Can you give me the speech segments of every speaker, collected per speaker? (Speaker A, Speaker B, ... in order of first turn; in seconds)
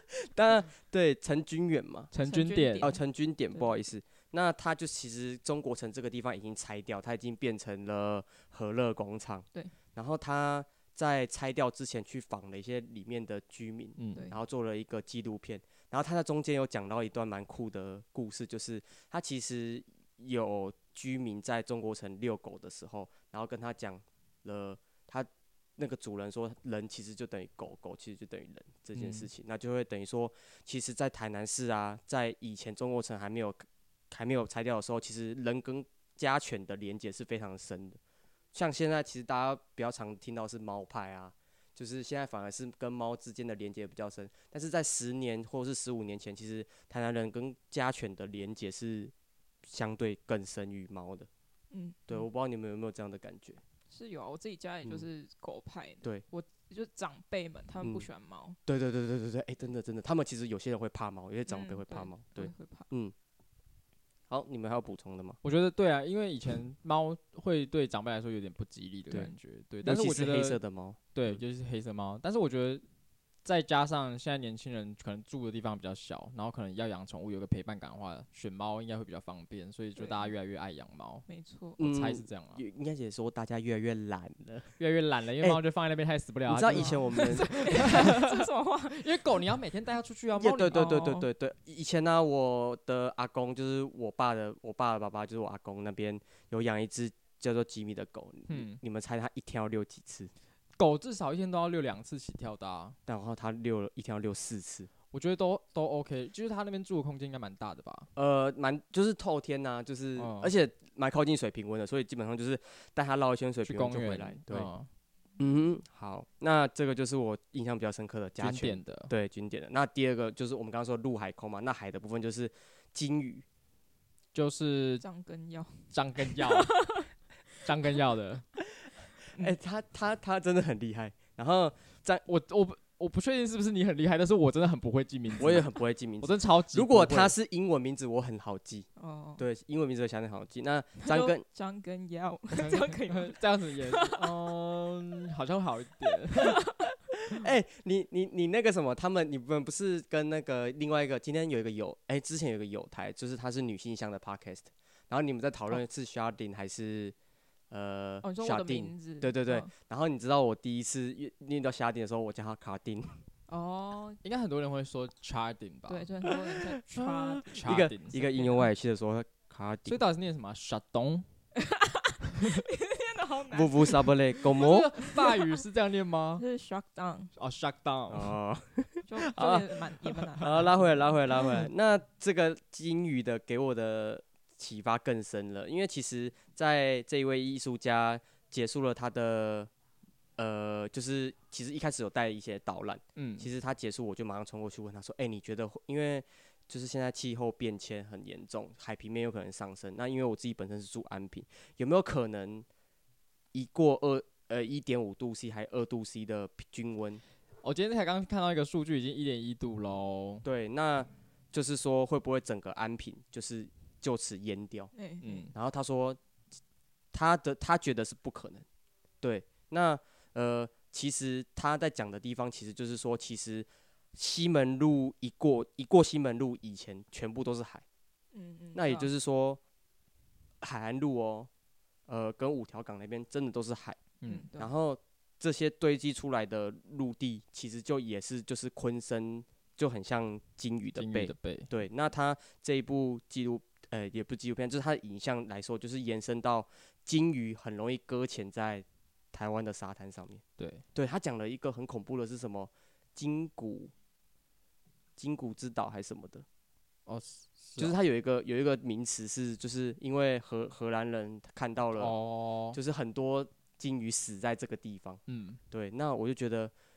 Speaker A: 0.3-2.1, 2.8-38.0, 38.5-49.1, 49.6-51.3, 52.1-53.6, 57.8-58.1, 58.7-63.1, 64.3-65.4, 69.8-71.4, 81.8-84.7, 86.5-87.5, 90.4-100.3, 103.1-104.9, 108.2-114.7, 115.4-123.5, 129.3-132.2, 135.4-138.9, 139.4-141.4, 147.3-157.2, 157.7-163.2, 167.6-170.0, 173.5-174.9, 178.1-179.8, 180.3-189.7, 190.4-202.7, 203.5-207.2, 210.4-214.9, 215.5-216.2, 217.1-218.7, 219.2-227.8, 228.8-229.6, 230.6-231.5, 232.1-234.0, 234.6-250.4, 250.9-253.9, 255.2-256.4, 257.8-262.2, 262.7-266.7
Speaker B: 2.1-2.9, 14.0-14.3, 28.9-29.3, 65.4-70.6, 71.1-72.8, 73.4-81.3, 81.8-82.6, 84.8-91.2, 98.5-98.8, 100.8-103.0, 105.1-108.1, 110.2-110.5, 113.7-114.9, 118.4-119.1, 124.3-125.0, 125.9-126.7, 127.6-128.5, 132.3-137.3, 142.5-146.6, 164.2-166.3, 166.9-168.5, 169.9-171.3, 172.3-172.6, 174.6-176.4, 177.4-178.3, 193.2-193.5, 207.6-210.4, 215.2-215.5, 234.2-234.5, 241.0-241.7, 250.6-250.8, 257.1-257.9, 262.0-262.8, 265.3-265.6
Speaker C: 2.2-3.0, 51.7-52.3, 53.9-58.6, 61.5-62.9, 80.0-80.3, 81.3-81.8, 86.7-89.5, 90.8-91.1, 125.0-127.1, 139.0-139.4, 141.0-144.3, 146.3-146.8, 158.2-159.7, 163.5-164.2, 165.9-167.5, 168.3-168.7, 171.6-175.6, 176.4-177.3, 179.1-181.1, 214.9-215.5, 228.3-229.1, 234.2-234.7